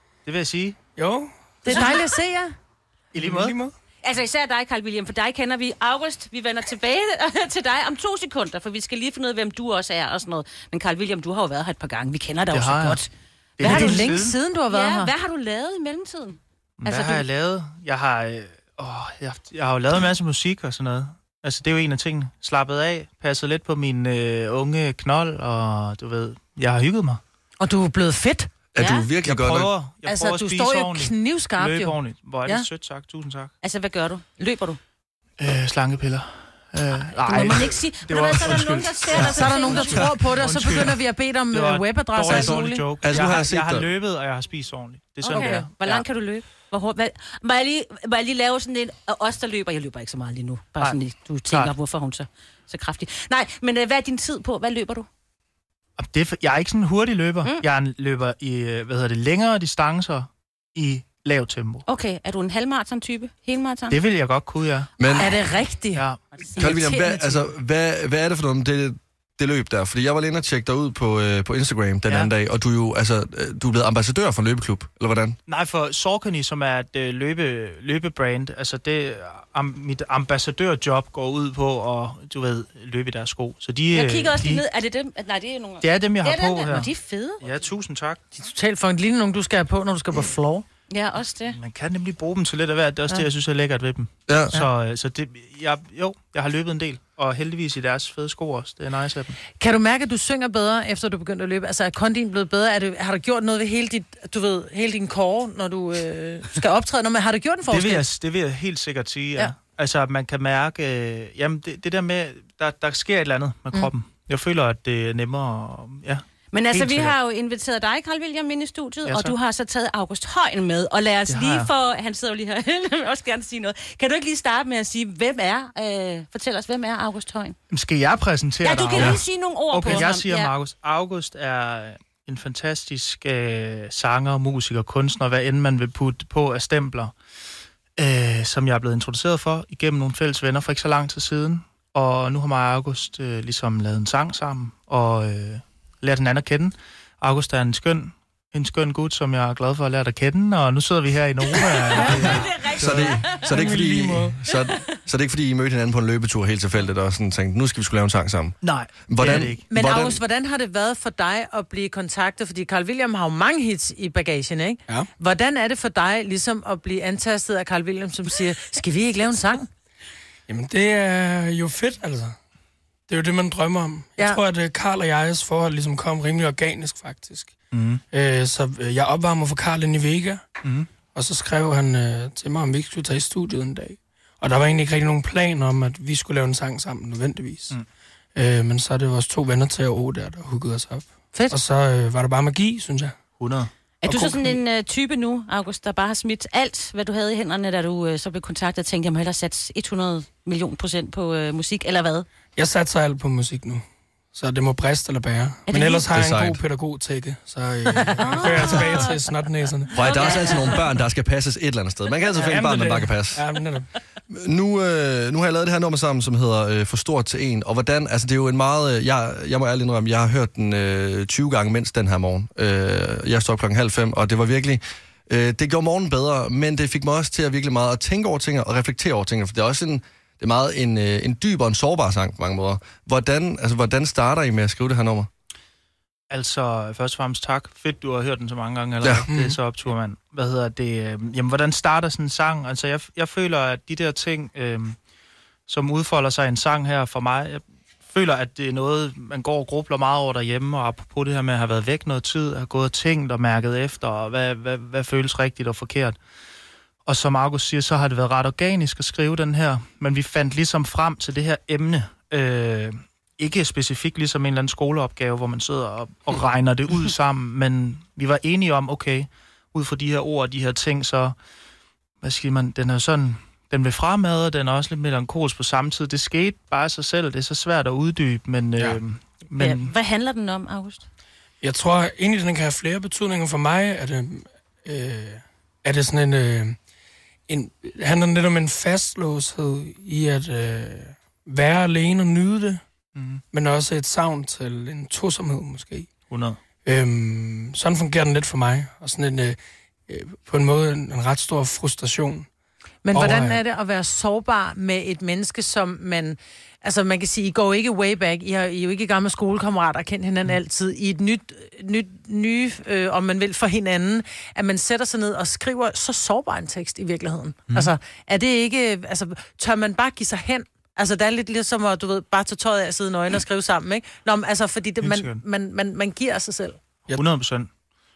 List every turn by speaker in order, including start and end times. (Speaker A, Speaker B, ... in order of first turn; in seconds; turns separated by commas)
Speaker A: 0.2-0.8, Speaker B: 0.9-1.9, Speaker C: 1.6-2.5, Speaker D: 1.7-2.0, Speaker A: 3.1-3.6, Speaker B: 3.1-3.7, Speaker D: 4.0-13.1, Speaker A: 12.5-13.0, Speaker A: 13.6-14.4, Speaker D: 13.6-14.1, Speaker C: 13.6-15.1, Speaker D: 14.7-17.2, Speaker A: 16.8-27.2, Speaker C: 27.6-28.5, Speaker E: 28.7-29.7, Speaker D: 28.8-29.1, Speaker A: 29.1-33.5, Speaker C: 30.1-32.6, Speaker D: 33.6-34.8, Speaker A: 35.4-46.0, Speaker D: 37.1-40.1, Speaker C: 39.2-42.9, Speaker E: 42.3-43.9, Speaker D: 45.2-55.1, Speaker C: 45.3-45.6, Speaker A: 50.8-51.7, Speaker A: 56.0-61.8, Speaker D: 61.9-64.0, Speaker A: 63.9-64.9, Speaker E: 65.0-65.3, Speaker C: 65.1-67.5, Speaker A: 65.9-66.2, Speaker E: 66.6-75.4, Speaker A: 75.5-84.6, Speaker D: 83.9-87.4, Speaker A: 85.8-88.2, Speaker C: 88.3-90.6, Speaker D: 90.9-91.5, Speaker A: 91.5-99.4, Speaker E: 94.3-94.5, Speaker C: 99.6-108.0, Speaker A: 107.7-117.2, Speaker D: 116.5-127.6, Speaker A: 119.0-119.4, Speaker A: 121.3-121.7, Speaker A: 127.7-137.1, Speaker D: 128.6-130.5, Speaker A: 138.0-153.1, Speaker D: 151.9-153.5, Speaker E: 152.8-160.2, Speaker B: 152.8-154.3, Speaker A: 158.6-159.6, Speaker C: 159.7-169.7, Speaker B: 170.5-172.4, Speaker B: 173.1-177.6, Speaker A: 177.7-178.0, Speaker B: 178.1-180.4, Speaker A: 180.6-180.9, Speaker B: 181.1-187.8, Speaker B: 188.3-193.2, Speaker A: 193.4-193.7, Speaker D: 194.0-202.2, Speaker B: 194.0-194.6, Speaker B: 202.6-210.0, Speaker D: 205.7-206.1, Speaker E: 206.1-206.6, Speaker D: 208.0-209.2, Speaker E: 209.9-213.4, Speaker D: 209.9-210.8, Speaker B: 212.3-213.9, Speaker E: 214.3-235.3, Speaker A: 236.3-245.0, Speaker B: 239.3-239.6, Speaker A: 245.7-256.2, Speaker A: 257.1-271.3, Speaker A: 272.2-279.9, Speaker D: 279.6-281.0, Speaker B: 281.6-286.8, Speaker B: 287.5-292.8, Speaker A: 293.1-293.4, Speaker B: 293.5-296.1, Speaker A: 296.3-296.6, Speaker B: 296.8-302.5, Speaker C: 303.0-326.8, Speaker B: 303.1-303.6, Speaker A: 317.7-317.9, Speaker A: 325.0-325.4, Speaker A: 327.1-327.7